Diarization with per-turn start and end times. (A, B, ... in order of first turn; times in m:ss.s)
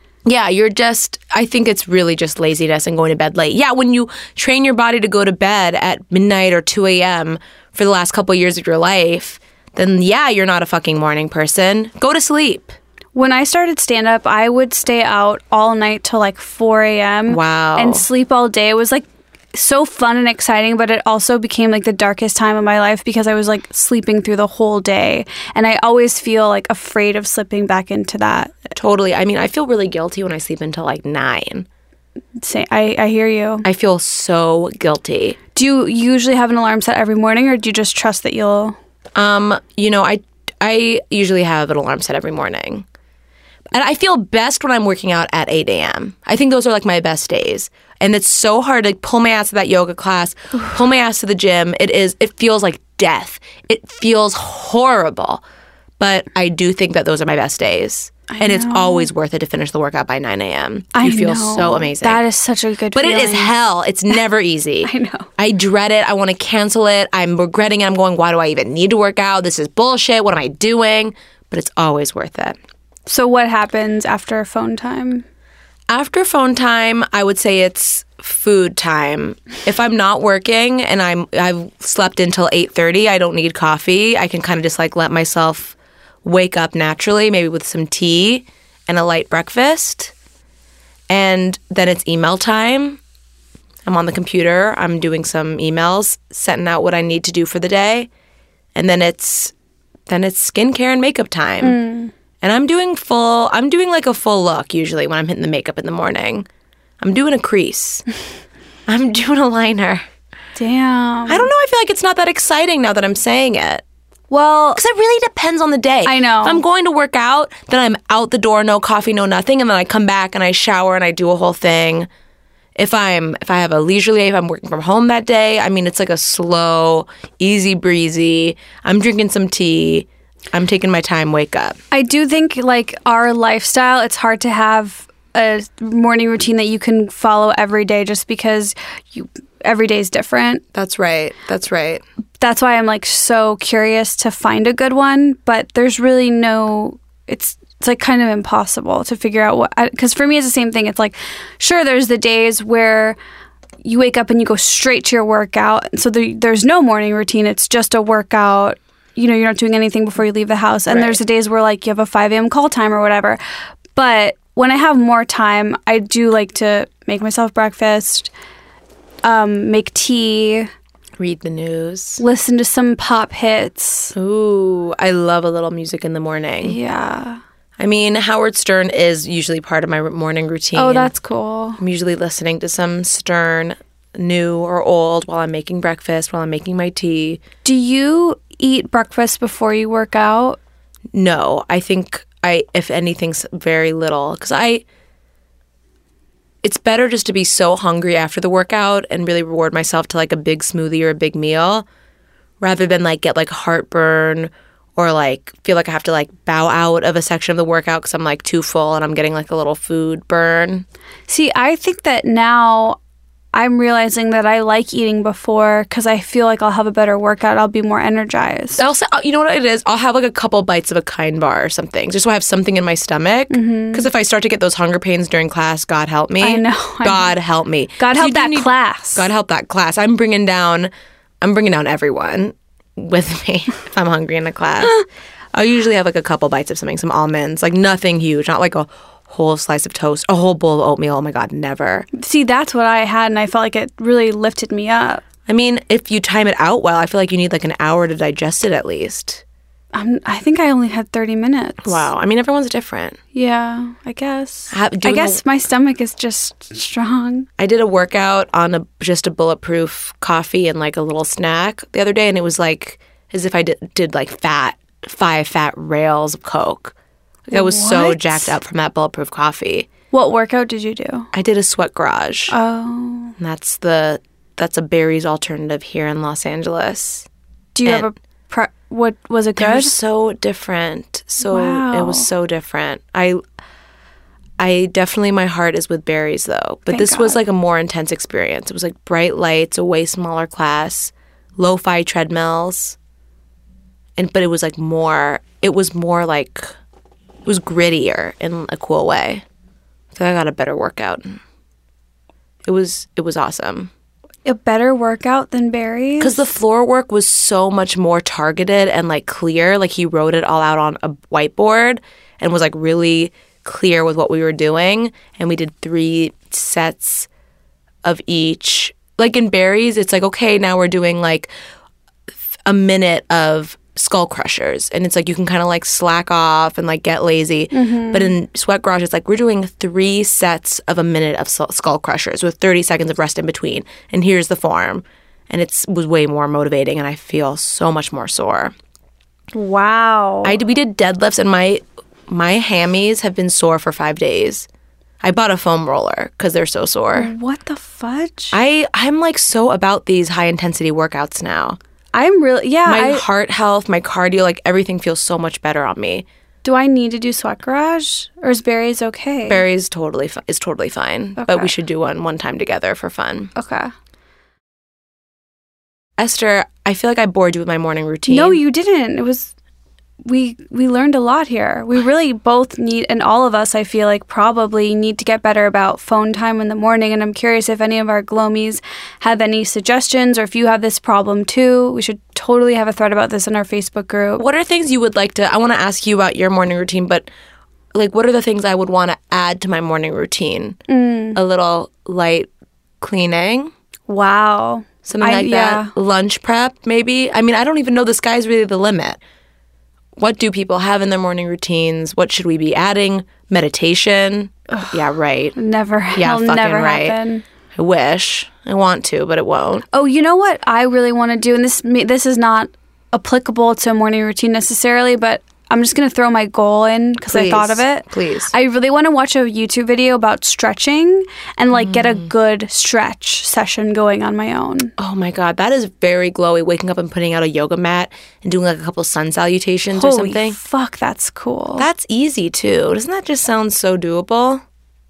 0:00.2-0:12.8 A
0:13.1-0:28.6 B
0:17.3-0:18.0 A
0:28.8-0:31.7 A
0:32.4-0:33.6 B
0:33.6-0:35.4 A
0:35.5-0:38.8 B
0:39.1-0:42.8 A
0:43.7-0:55.4 A
0:56.0-1:02.2 A
0:58.3-0:59.1 B
1:00.9-1:03.5 B
1:02.9-1:12.6 A
1:04.8-1:05.3 B
1:13.0-1:15.2 B
1:15.9-1:30.1 A
1:31.1-1:33.0 A
1:33.8-1:38.1 A
1:38.7-1:39.5 A
1:40.1-1:41.8 A
1:41.6-1:42.1 B
1:42.4-1:46.5 A
1:47.0-1:48.0 A
1:48.9-1:50.0 A
1:50.6-1:51.5 B
1:51.3-1:53.8 A
1:54.3-1:54.8 B
1:54.8-2:02.1 A
1:56.0-1:56.6 B
2:02.8-2:11.8 A
2:11.9-2:20.6 B
2:20.7-2:22.0 A
2:22.4-2:33.2 B
2:33.8-2:43.4 B
2:40.9-2:41.2 A
2:43.9-2:48.3 B
2:49.2-2:50.7 B
2:51.2-2:52.2 A
2:52.2-2:54.1 B
2:54.1-2:56.8 A
2:56.6-2:57.4 B
2:57.8-3:01.1 A
3:00.7-3:01.8 B
3:01.8-3:07.4 A
3:07.6-3:10.6 B
3:11.1-3:14.8 A
3:16.6-3:21.8 A
3:22.6-3:30.8 A
3:31.3-3:33.0 B
3:33.5-3:38.8 B
3:38.8-4:02.1 A
3:43.5-3:44.1 B
3:46.4-3:47.4 B
3:48.0-3:49.3 B
4:02.1-4:05.2 B
4:05.4-4:09.4 A
4:09.9-4:12.1 B
4:11.8-4:13.2 A
4:13.3-4:17.5 B
4:14.7-4:15.4 A
4:17.6-4:26.9 A
4:27.5-4:29.9 A
4:27.5-4:28.5 B
4:30.1-4:31.3 B
4:31.3-4:32.5 A
4:32.5-4:33.4 B
4:33.4-4:37.3 A
4:37.7-4:39.9 B
4:39.6-4:43.4 A
4:41.4-4:42.3 B
4:44.6-4:53.0 A
4:46.9-4:47.4 B
4:54.2-4:56.7 A
4:57.4-4:59.4 A
5:00.1-5:01.4 A
5:02.6-5:03.9 A
5:04.4-5:06.5 B
5:06.2-5:17.3 A
5:18.0-5:21.5 A
5:22.6-5:38.7 A
5:27.7-5:28.3 B
5:39.5-5:40.6 B
5:40.4-5:44.7 A
5:45.2-5:47.3 A
5:47.1-5:48.5 B
5:48.5-5:51.8 A
5:52.1-5:53.2 B
5:52.8-5:56.2 A
5:56.6-5:59.6 B
5:59.5-6:03.5 A
6:01.4-6:01.7 B
6:03.5-6:03.9 B
6:06.2-6:08.6 A
6:08.3-6:09.5 B
6:10.2-6:24.4 B
6:24.4-6:27.3 A
6:27.9-6:30.8 A
6:30.9-6:31.4 B
6:31.3-6:32.5 A
6:33.0-6:33.7 A
6:34.1-6:35.9 B
6:35.0-6:39.2 A
6:40.2-6:45.6 A
6:45.5-6:47.4 B
6:46.1-6:47.2 A
6:47.7-6:49.8 A
6:49.9-7:04.9 B
6:57.2-6:58.5 A
7:01.7-7:02.2 A
7:05.0-7:10.6 A
7:09.9-7:11.9 B
7:11.8-7:14.6 A